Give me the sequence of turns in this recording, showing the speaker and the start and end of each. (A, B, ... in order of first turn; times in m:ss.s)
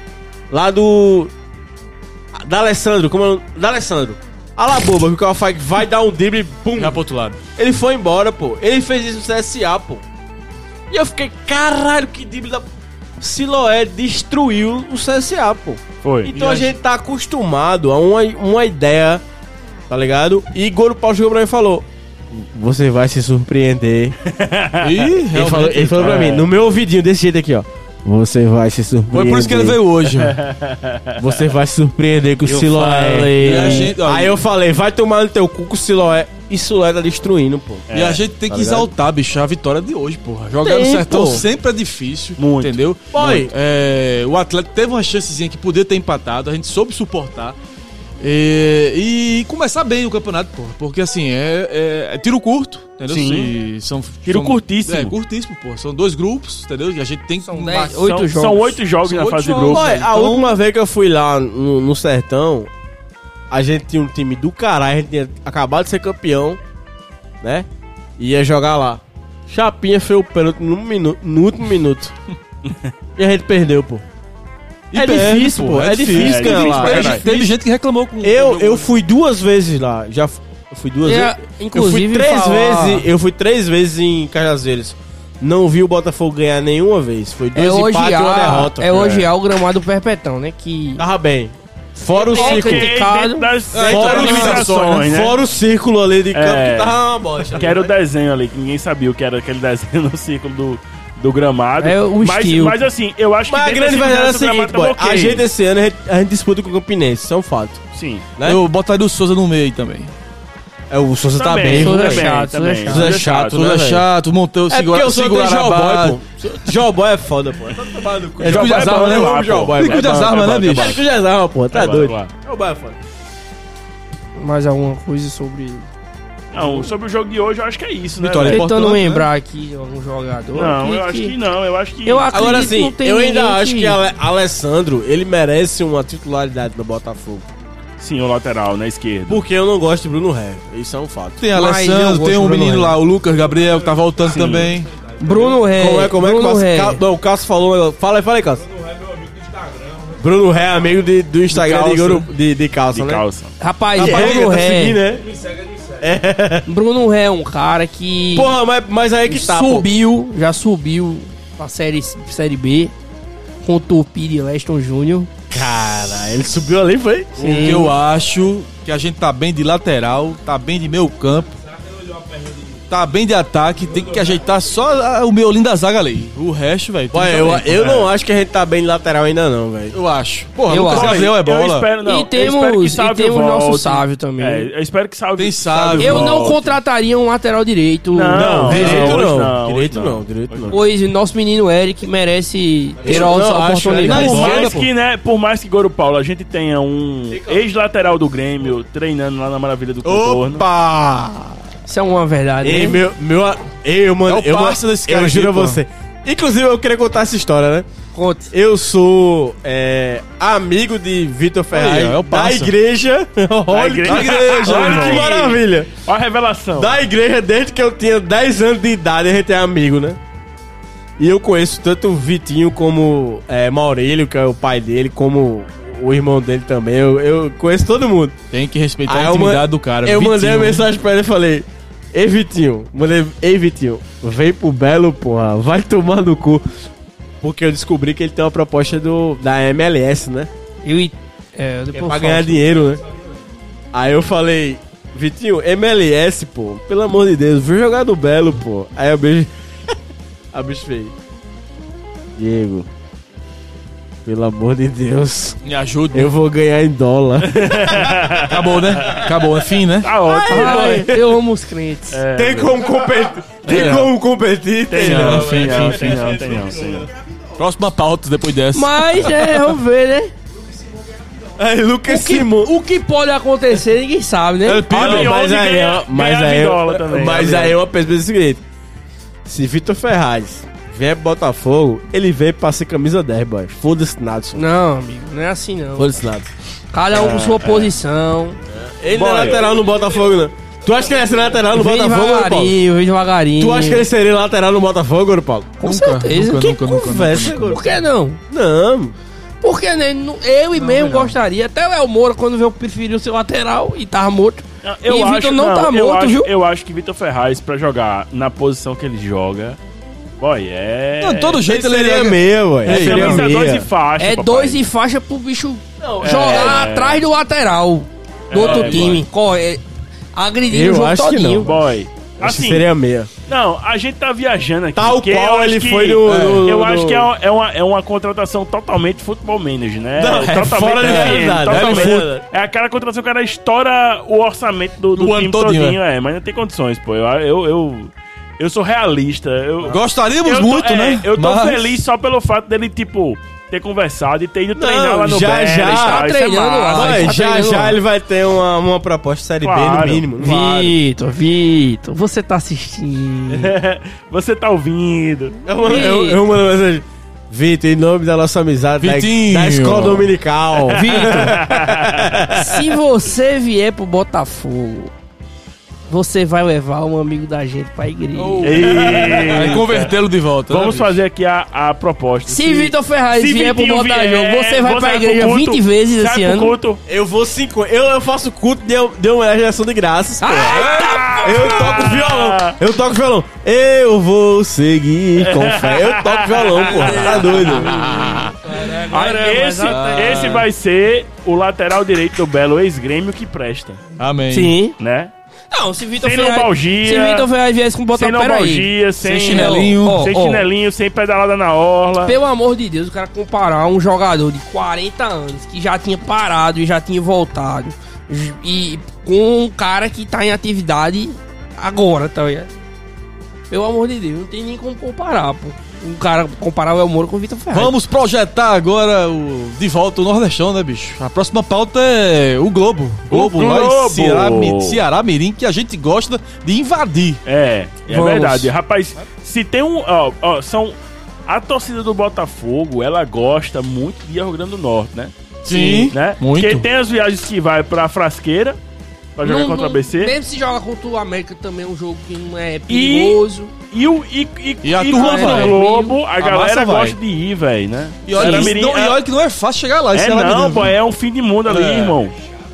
0:00.5-0:01.3 A
0:02.3-0:10.0 A
0:06.8-0:07.4 B
0:10.9-0:12.7 A
0:13.2-0:19.2 A
0:16.0-0:16.6 C
0:16.4-0:16.7 B
0:19.9-0:24.2 A
0:24.3-0:25.1 C
0:24.8-0:26.4 B
0:25.3-0:29.8 A
0:26.0-0:26.5 C
0:29.1-0:30.4 B
0:30.1-0:31.4 C
0:31.2-0:37.9 A
0:32.6-0:34.4 B
0:32.7-0:33.9 D
0:37.9-0:38.2 C
0:37.9-0:47.6 B
0:38.5-0:38.9 A
0:40.6-0:41.4 A
0:42.4-0:42.8 C
0:43.1-0:43.5 A
0:48.2-0:58.0 B
0:53.1-0:53.5 C
0:54.2-0:55.1 C
0:57.4-0:58.8 D
0:57.9-1:00.0 C
0:59.0-1:00.6 B
0:59.5-1:02.7 A
1:03.5-1:06.6 A
1:08.2-1:12.1 A
1:12.6-1:12.9 C
1:13.2-1:14.0 A
1:14.9-1:18.9 B
1:14.9-1:17.5 A
1:16.1-1:17.2 C
1:18.2-1:29.0 A
1:21.0-1:23.1 D
1:27.5-1:31.0 D
1:28.9-1:29.3 C
1:31.0-1:32.9 A
1:32.1-1:35.4 C
1:32.3-1:33.5 D
1:33.7-1:34.8 B
1:33.8-1:37.9 A
1:36.3-1:37.0 C
1:37.5-1:45.4 C
1:41.8-1:42.8 D
1:43.5-1:47.8 A
1:47.9-1:48.3 C
1:48.4-1:48.6 A
1:48.4-1:50.1 B
1:50.9-1:52.3 A
1:51.3-1:53.6 C
1:51.7-1:53.1 D
1:52.9-1:54.0 A
1:53.5-1:56.7 B
1:54.7-2:03.0 A
1:58.4-2:01.0 B
1:58.4-2:01.0 C
2:01.7-2:02.3 C
2:04.4-2:05.9 D
2:06.5-2:08.6 C
2:08.2-2:09.3 B
2:08.4-2:11.3 D
2:10.5-2:12.7 C
2:12.0-2:14.0 D
2:12.3-2:17.5 A
2:18.0-2:19.4 C
2:19.3-2:21.4 A
2:21.4-2:24.9 B
2:21.5-2:23.0 D
2:24.2-2:24.7 C
2:25.2-2:27.0 D
2:25.3-2:28.6 A
2:30.1-2:33.2 A
2:31.5-2:32.3 B
2:32.9-2:33.5 C
2:33.6-2:35.0 D
2:33.9-2:34.6 B
2:34.0-2:35.3 A
2:36.0-2:36.7 A
2:36.6-2:38.5 D
2:38.3-2:39.9 A
2:39.2-2:42.9 D
2:43.6-2:45.3 D
2:45.5-2:47.8 A
2:47.4-2:47.9 D
2:47.4-2:51.6 B
2:52.8-2:58.1 B
2:57.1-3:00.0 A
2:59.9-3:01.9 B
3:00.7-3:01.2 D
3:00.7-3:06.8 C
3:02.0-3:04.7 D
3:05.4-3:06.5 B
3:06.0-3:08.6 D
3:08.1-3:10.8 C
3:08.3-3:10.8 A
3:08.5-3:09.3 B
3:10.7-3:14.5 D
3:13.0-3:14.8 A
3:13.8-3:14.9 B
3:14.1-3:20.6 C
3:17.3-3:17.7 A
3:20.0-3:21.4 B
3:21.8-3:23.0 D
3:22.6-3:27.8 A
3:24.2-3:25.8 B
3:28.1-3:28.5 D
3:28.5-3:35.9 A
3:31.7-3:32.7 B
3:33.7-3:36.9 C
3:34.0-3:35.3 B
3:36.7-3:40.2 A
3:41.2-3:48.4 A
3:48.5-3:50.8 B
3:49.1-3:56.7 A
3:57.4-4:00.5 A
4:00.8-4:02.6 D
4:01.9-4:03.0 A
4:03.9-4:09.5 A
4:10.5-4:11.1 A
4:12.4-4:12.9 A
4:14.2-4:15.6 A
4:15.6-4:16.3 B
4:16.1-4:18.5 A
4:17.5-4:19.3 C
4:18.5-4:20.1 B
4:20.0-4:21.0 C
4:20.2-4:21.4 A
4:20.5-4:22.2 D
4:22.1-4:22.8 C
4:22.3-4:26.3 A
4:23.6-4:24.1 C
4:24.9-4:27.1 C
4:25.0-4:26.6 B
4:27.6-4:29.6 B
4:28.7-4:30.3 D
4:31.6-4:32.7 A
4:32.1-4:34.9 D
4:34.6-4:35.4 B
4:34.9-4:38.6 A
4:34.9-4:37.8 C
4:39.4-4:44.6 A
4:44.5-4:46.1 D
4:46.0-4:46.5 A
4:46.9-4:48.6 D
4:47.1-4:47.9 C
4:48.7-4:52.7 A
4:49.1-4:49.8 C
4:51.7-4:54.0 D
4:53.6-4:55.8 A
4:55.8-4:56.8 D
4:55.8-4:57.9 B
4:56.5-4:59.1 A
4:57.4-4:58.4 D
4:59.6-5:06.5 D
5:00.7-5:01.3 B
5:04.8-5:09.8 C
5:10.4-5:11.6 C
5:11.2-5:13.5 B
5:11.6-5:13.9 A
5:12.8-5:14.8 C
5:14.2-5:21.7 D
5:16.0-5:16.8 A
5:16.2-5:17.2 C
5:18.5-5:19.2 C
5:18.5-5:19.2 B
5:20.7-5:21.8 A
5:21.6-5:22.8 C
5:22.4-5:23.3 A
5:23.4-5:47.4 C
5:25.0-5:27.3 A
5:26.2-5:26.7 B
5:30.2-5:32.4 A
5:31.0-5:32.3 B
5:35.2-5:36.0 B
5:39.8-5:42.0 B
5:44.7-5:46.2 A
5:45.8-5:48.0 D
5:46.9-5:50.9 A
5:49.6-5:50.3 C
5:50.4-5:53.7 D
5:53.5-5:55.6 C
5:55.6-6:02.8 A
5:55.8-5:56.4 D
5:59.0-6:00.3 B
6:00.9-6:01.6 D
6:01.2-6:02.5 C
6:02.5-6:05.1 D
6:06.1-6:09.0 D
6:08.3-6:11.1 B
6:08.6-6:10.2 C
6:10.7-6:17.0 C
6:12.5-6:16.7 D
6:17.0-6:28.0 A
6:20.4-6:22.1 D
6:20.7-6:22.8 C
6:20.7-6:21.2 B
6:25.4-6:27.8 C
6:27.0-6:30.6 D
6:27.5-6:28.5 B
6:29.1-6:34.0 C
6:29.8-6:30.6 B
6:34.2-6:34.7 B
6:34.5-6:34.9 D
6:35.0-6:35.3 C
6:35.7-6:40.6 D
6:36.2-6:37.5 C
6:38.1-6:42.4 C
6:39.2-6:40.3 B
6:42.2-6:52.7 D
6:53.7-6:57.9 D
6:57.7-7:07.4 B
7:03.3-7:05.0 C
7:07.4-7:11.0 C
7:08.1-7:08.7 D
7:11.5-7:15.3 C
7:15.6-7:16.8 B
7:15.7-7:16.1 D
7:15.9-7:18.8 C
7:19.4-7:20.3 C
7:19.4-7:23.7 D
7:22.9-7:23.4 C
7:23.9-7:29.2 C
7:24.8-7:25.8 B
7:25.1-7:26.2 D
7:26.4-7:27.2 B
7:28.2-7:30.9 B
7:28.3-7:28.7 D
7:30.1-7:32.3 C
7:31.7-7:32.2 B